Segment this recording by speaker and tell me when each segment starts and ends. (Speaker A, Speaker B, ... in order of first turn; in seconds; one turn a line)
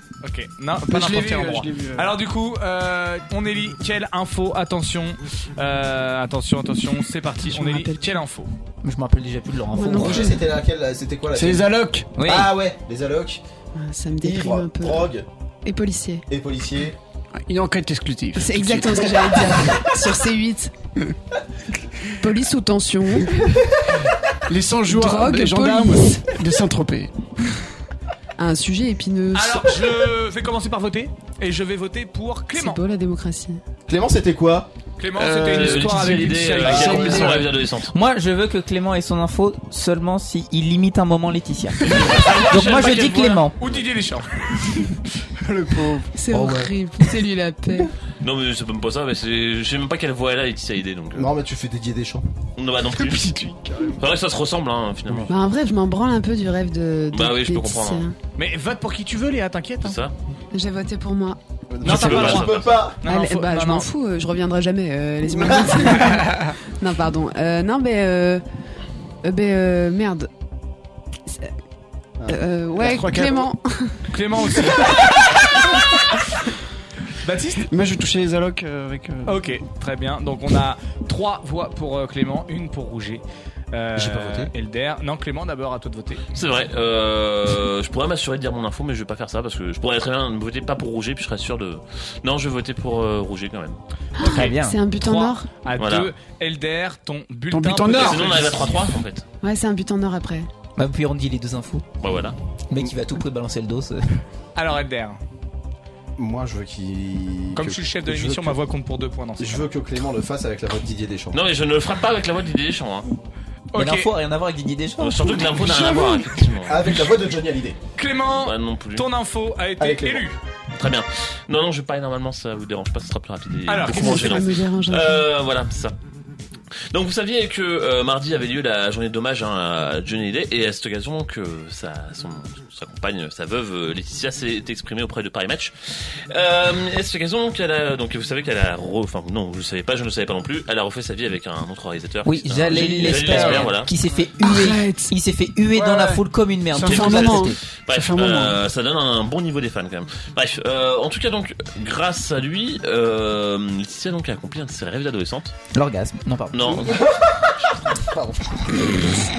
Speaker A: 0.2-8.5
Speaker B: 0.8-2.1
Speaker C: 7.4-8.2
Speaker D: 8.8-10.4
Speaker C: 9.7-10.4
Speaker E: 9.8-13.4
Speaker B: 11.3-12.1
Speaker D: 12.2-12.5
Speaker C: 13.8-15.1
Speaker E: 14.2-15.2
Speaker C: 15.6-16.2
Speaker E: 16.3-16.9
Speaker B: 17.4-19.8
Speaker C: 18.4-20.7
Speaker C: 22.2-23.4
Speaker B: 24.5-27.1
Speaker C: 24.9-26.3
Speaker C: 28.4-29.9
Speaker A: 29.3-32.8
Speaker C: 32.5-33.6
Speaker E: 33.9-34.7
Speaker A: 35.0-37.4
Speaker B: 35.2-37.5
Speaker F: 35.4-37.9
Speaker D: 37.9-43.5
Speaker F: 42.1-43.5
Speaker A: 42.2-43.0
Speaker A: 43.6-44.6
Speaker B: 45.4-46.6
Speaker C: 46.1-47.9
Speaker E: 46.3-46.7
Speaker F: 48.2-51.3
Speaker E: 51.1-52.2
Speaker F: 52.6-53.3
Speaker B: 53.0-53.7
Speaker F: 54.0-55.3
Speaker C: 55.3-58.1
Speaker F: 57.1-58.1
Speaker A: 58.4-60.0
Speaker F: 59.8-60.1
Speaker C: 60.5-61.4
Speaker E: 61.7-63.0
Speaker A: 61.8-63.9
Speaker F: 61.8-62.8
Speaker C: 63.0-68.4
Speaker B: 66.1-66.5
Speaker C: 69.2-70.3
Speaker C: 72.3-74.0
Speaker B: 72.7-73.5
Speaker A: 74.1-75.6
Speaker A: 77.2-77.7
Speaker B: 77.7-79.5
Speaker A: 79.2-86.2
Speaker E: 84.0-84.5
Speaker F: 86.3-94.5
Speaker C: 94.2-95.5
Speaker D: 94.3-94.8
Speaker A: 95.0-98.9
Speaker F: 95.8-96.1
Speaker B: 97.5-98.4
Speaker F: 97.8-99.2
Speaker C: 99.4-100.5
Speaker D: 100.8-101.9
Speaker F: 102.0-102.3
Speaker D: 102.7-104.2
Speaker A: 104.5-105.2
Speaker E: 106.2-108.6
Speaker A: 107.5-109.7
Speaker E: 109.4-111.4
Speaker F: 111.3-113.1
Speaker A: 113.7-114.1
Speaker D: 113.7-115.4
Speaker F: 115.0-117.0
Speaker B: 115.6-116.1
Speaker E: 116.7-117.8
Speaker A: 118.0-120.3
Speaker F: 118.3-119.1
Speaker E: 119.8-120.2
Speaker F: 120.8-126.0
Speaker A: 123.7-124.4
Speaker C: 123.8-125.3
Speaker F: 126.9-143.9
Speaker D: 142.2-147.6
Speaker B: 142.9-143.6
Speaker B: 144.4-145.1
Speaker B: 145.7-148.6
Speaker F: 146.8-155.5
Speaker D: 155.7-157.0
Speaker F: 156.5-157.0